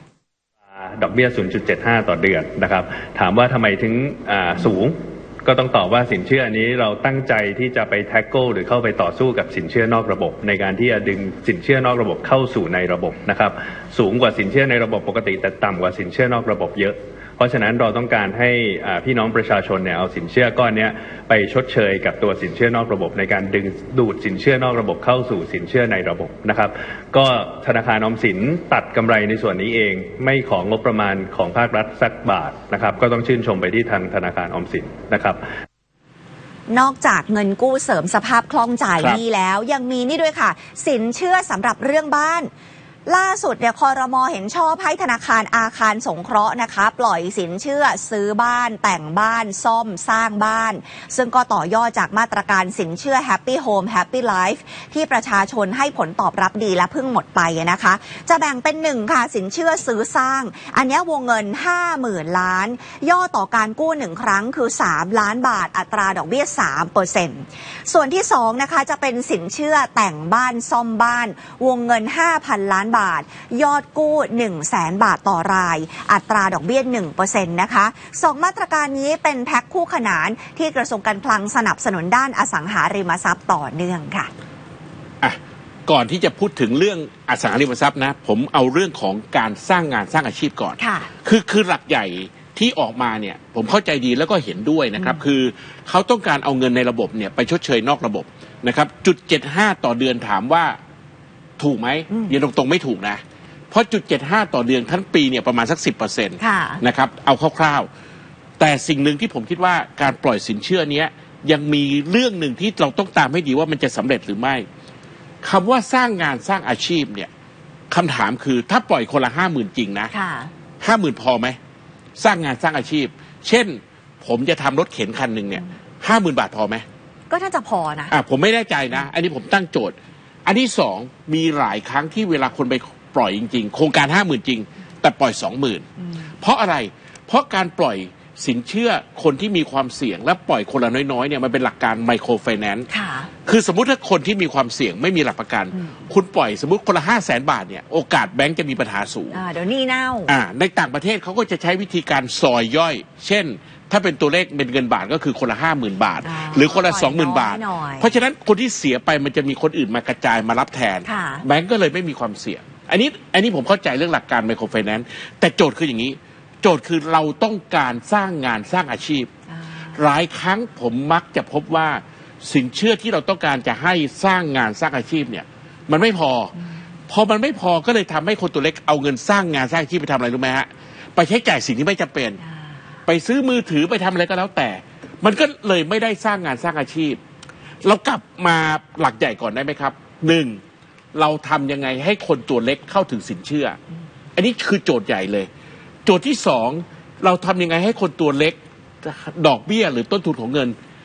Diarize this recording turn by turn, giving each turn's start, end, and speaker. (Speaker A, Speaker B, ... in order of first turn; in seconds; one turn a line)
Speaker A: 0.8-35.4
Speaker B: 36.7-42.5
Speaker B: 43.1-84.3
Speaker C: 85.2-100.8
Speaker B: 90.8-91.1
Speaker C: 101.6-107.9
Speaker B: 106.4-106.8
Speaker C: 108.6-114.7
Speaker C: 115.4-117.3
Speaker C: 117.9-120.1
Speaker B: 120.1-120.5
Speaker C: 120.8-121.6
Speaker C: 122.2-126.8
Speaker B: 127.3-128.1
Speaker C: 128.1-129.9
Speaker C: 130.5-135.9
Speaker C: 136.4-142.9
Speaker B: 142.9-143.3
Speaker C: 143.4-149.4
Speaker B: 149.3-150.3
Speaker C: 150.3-169.3
Speaker B: 156.2-158.1
Speaker B: 161.1-161.4
Speaker B: 169.5-170.0
Speaker C: 169.9-176.6
Speaker C: 177.1-182.4
Speaker B: 182.4-182.8
Speaker C: 183.1-187.2
Speaker C: 187.8-190.6
Speaker C: 191.1-193.8
Speaker C: 194.4-195.5
Speaker C: 196.1-200.8